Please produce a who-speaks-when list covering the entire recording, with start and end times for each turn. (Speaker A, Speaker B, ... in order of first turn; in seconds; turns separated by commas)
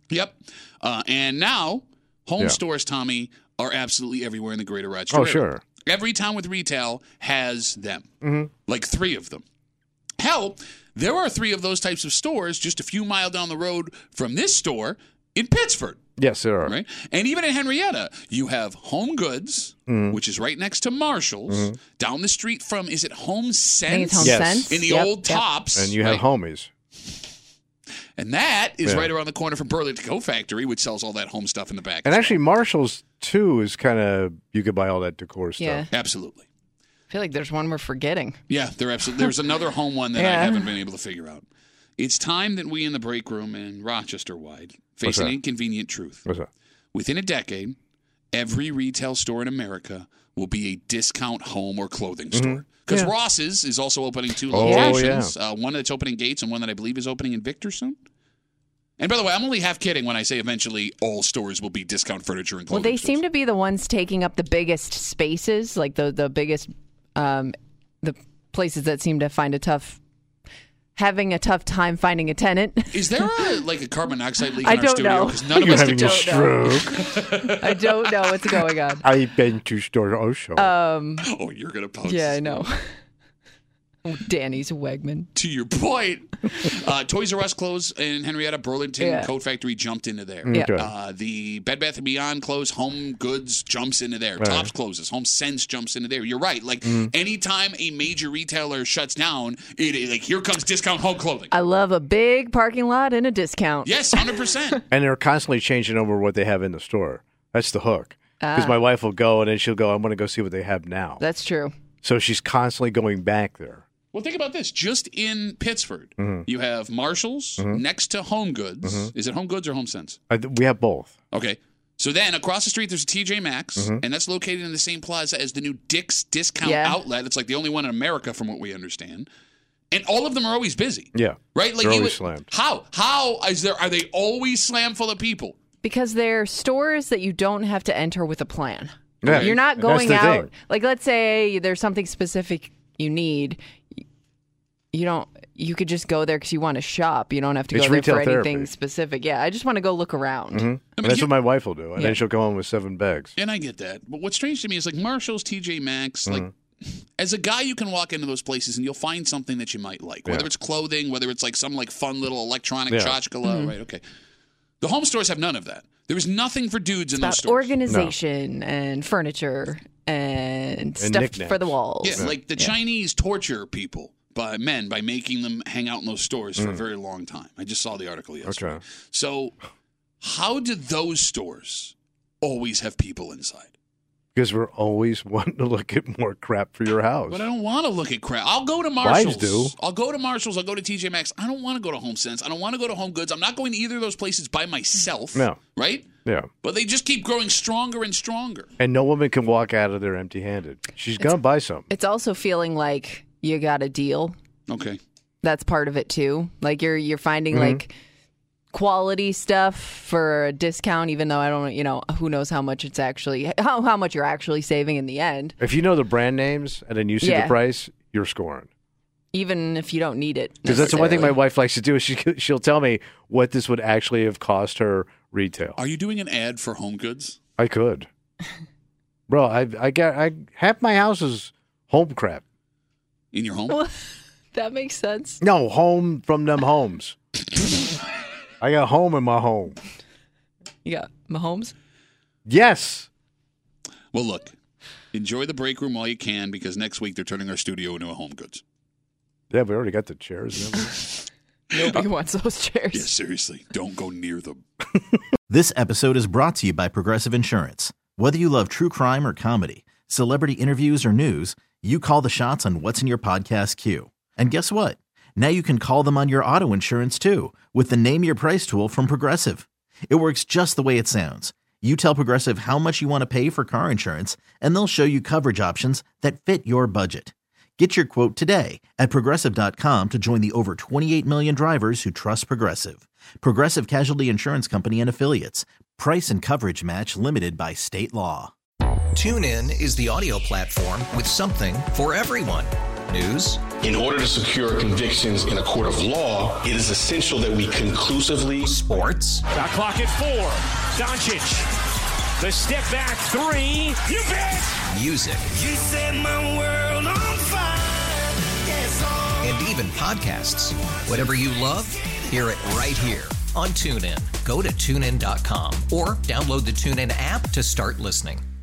Speaker A: 0.1-8.1, Speaker B: 5.1-5.6, Speaker B: 8.2-8.5, Speaker A: 8.7-9.4, Speaker A: 10.2-16.0, Speaker B: 16.2-16.8, Speaker A: 16.6-26.2, Speaker B: 19.9-20.2, Speaker B: 21.5-21.8, Speaker C: 23.9-25.4, Speaker B: 24.2-24.7, Speaker B: 25.8-26.7, Speaker A: 28.2-32.4, Speaker B: 28.9-29.1, Speaker B: 32.0-35.9, Speaker C: 35.6-35.9, Speaker A: 35.9-36.5, Speaker C: 37.1-38.4, Speaker A: 38.5-41.5, Speaker C: 40.2-40.7, Speaker A: 42.0-46.2, Speaker B: 45.0-45.4, Speaker A: 46.9-47.8, Speaker A: 48.3-58.0, Speaker B: 52.3-53.1, Speaker B: 54.5-55.3, Speaker C: 54.7-55.0, Speaker A: 59.0-63.2, Speaker C: 62.7-70.0, Speaker C: 71.0-73.5, Speaker A: 72.9-76.4, Speaker C: 74.6-79.0, Speaker B: 75.5-77.0, Speaker A: 76.9-77.9, Speaker B: 79.0-80.7, Speaker C: 80.6-81.3, Speaker A: 81.2-82.7, Speaker C: 82.0-82.8, Speaker C: 84.1-85.3, Speaker A: 85.3-101.5, Speaker C: 89.0-89.3, Speaker B: 90.4-90.9, Speaker B: 94.4-94.7, Speaker B: 96.8-97.1, Speaker C: 101.5-104.2, Speaker A: 103.8-104.8, Speaker B: 104.9-111.2, Speaker C: 108.4-108.8, Speaker C: 111.2-111.7, Speaker B: 112.0-113.8, Speaker A: 114.1-120.2, Speaker B: 118.8-119.1, Speaker B: 120.3-121.1, Speaker A: 121.3-129.3, Speaker C: 126.6-127.0, Speaker A: 129.9-135.6, Speaker B: 131.1-132.4, Speaker C: 135.8-143.6, Speaker B: 139.2-140.5, Speaker A: 139.2-139.6, Speaker C: 144.9-150.7, Speaker B: 147.7-148.7, Speaker B: 150.5-153.3, Speaker A: 151.0-151.3, Speaker A: 153.4-164.0, Speaker B: 162.9-163.2, Speaker C: 163.4-163.7, Speaker A: 164.8-167.7, Speaker C: 167.2-172.7, Speaker B: 167.9-168.1, Speaker B: 171.0-172.4, Speaker A: 172.0-179.6, Speaker B: 178.4-178.8, Speaker A: 180.2-183.7, Speaker B: 184.3-187.4, Speaker A: 187.3-196.1, Speaker B: 189.0-189.7, Speaker A: 196.6-198.7, Speaker B: 198.8-201.9, Speaker C: 201.2-204.3, Speaker A: 204.7-205.0, Speaker C: 205.4-207.9, Speaker B: 207.5-207.8, Speaker C: 208.7-215.6, Speaker B: 215.6-218.7, Speaker C: 217.2-217.6, Speaker C: 219.3-221.3, Speaker B: 220.7-225.8, Speaker A: 220.8-221.3, Speaker A: 225.8-227.4, Speaker B: 227.6-228.1, Speaker B: 229.3-232.4, Speaker A: 233.3-233.8, Speaker C: 234.5-235.4, Speaker B: 235.4-237.2, Speaker B: 238.6-239.8, Speaker C: 240.8-241.7, Speaker B: 242.5-243.1, Speaker A: 244.1-244.5, Speaker A: 245.1-248.6, Speaker B: 249.5-251.0, Speaker C: 251.7-253.1, Speaker A: 252.9-254.6, Speaker D: 255.5-288.5, Speaker E: 289.1-293.6, Speaker F: 293.8-298.7, Speaker E: 298.7-299.4, Speaker G: 299.5-301.7, Speaker G: 302.4-304.7, Speaker E: 304.9-305.5, Speaker H: 305.5-309.6, Speaker E: 309.4-318.4